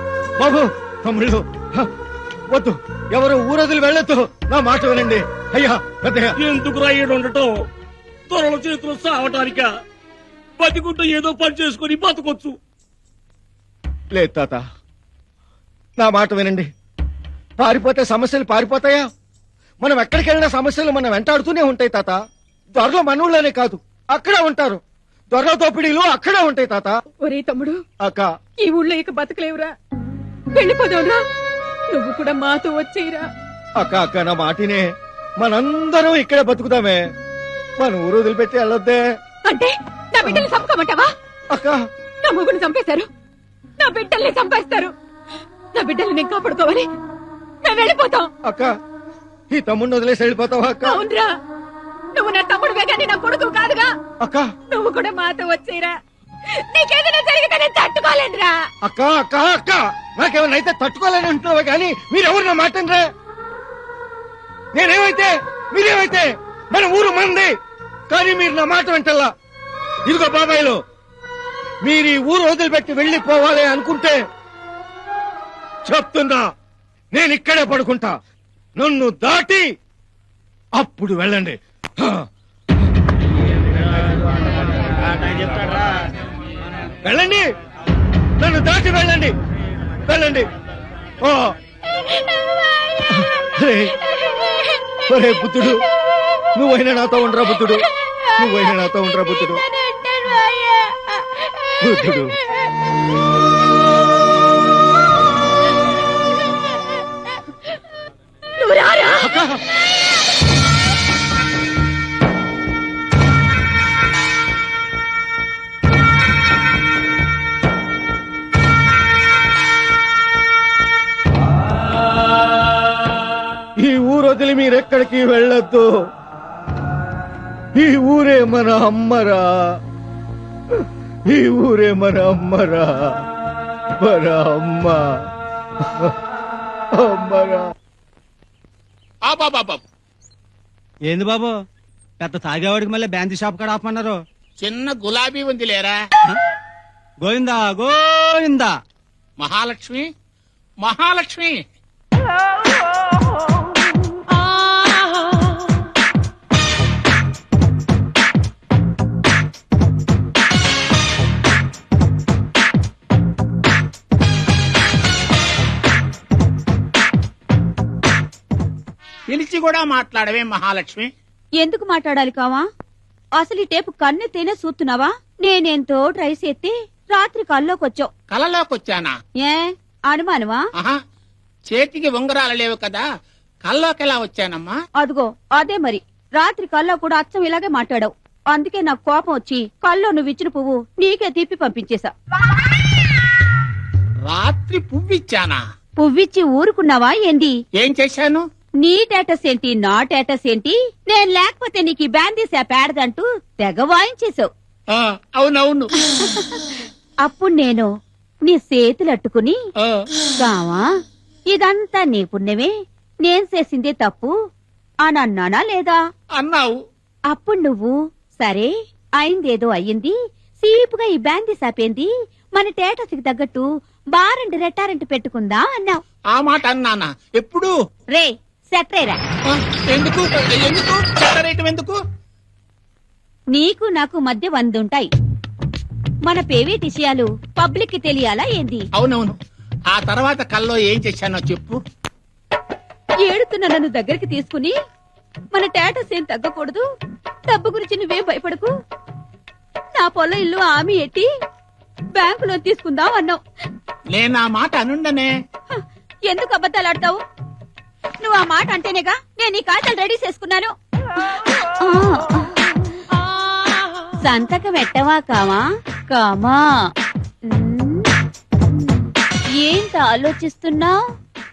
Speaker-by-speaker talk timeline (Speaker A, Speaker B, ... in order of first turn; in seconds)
Speaker A: 0.4-1.9, 2.5-6.3, 14.1-14.6, 16.0-16.7, 17.6-19.1, 19.8-22.2, 22.8-24.8, 25.3-26.9, 33.8-34.9, 35.4-37.0, 37.8-39.0, 41.5-41.8, 48.5-48.7, 49.5-51.0, 58.9-63.0, 64.7-67.5, 68.1-69.3, 70.0-70.8, 71.8-74.2, 75.9-76.5, 77.1-78.1, 78.8-79.7, 80.8-82.2, 87.0-87.5, 88.4-89.3, 90.1-90.5, 91.2-91.5, 93.1-93.9, 95.0-95.8, 96.5-97.9, 98.4-99.6, 101.8-102.3, 109.2-109.5, 123.8-125.9, 127.8-129.4, 131.3-132.9, 134.0-135.0, 137.0-137.7
Speaker B: 6.4-7.6, 8.3-9.7, 10.6-12.6
Speaker C: 27.2-27.8, 28.6-29.7, 30.6-31.2, 31.9-33.3, 39.5-41.1, 42.2-43.1, 43.8-44.9, 45.8-46.9, 47.6-48.3, 50.9-51.3, 52.1-53.9, 54.7-55.9, 56.7-58.6, 99.9-101.0, 108.6-109.2
Speaker D: 139.2-139.8, 144.6-146.0, 149.4-150.1, 150.8-151.6, 169.3-171.1, 178.3-179.1, 181.7-183.1, 183.6-184.8, 194.3-195.6, 197.8-198.4, 204.9-205.9, 209.8-210.1, 216.4-216.8, 226.3-227.7, 229.5-232.0, 239.0-239.3, 239.9-241.8, 254.1-255.3
Speaker E: 141.1-141.6, 142.2-144.2, 147.2-148.7
Speaker F: 171.6-172.7, 173.4-178.1, 179.4-180.6, 185.0-192.1, 196.0-197.6, 198.8-204.5, 207.3-207.9, 208.5-209.6, 210.4-210.9, 211.5-212.7, 213.2-214.3, 215.1-216.0, 217.3-223.7, 224.2-226.0, 228.1-229.2, 233.5-235.1, 236.3-238.8, 243.3-244.8, 245.5-246.8, 247.5-248.7, 250.0-251.3, 252.2-253.4, 256.3-257.2, 258.2-260.7, 261.8-262.8, 264.3-266.6, 267.5-268.1, 268.7-271.0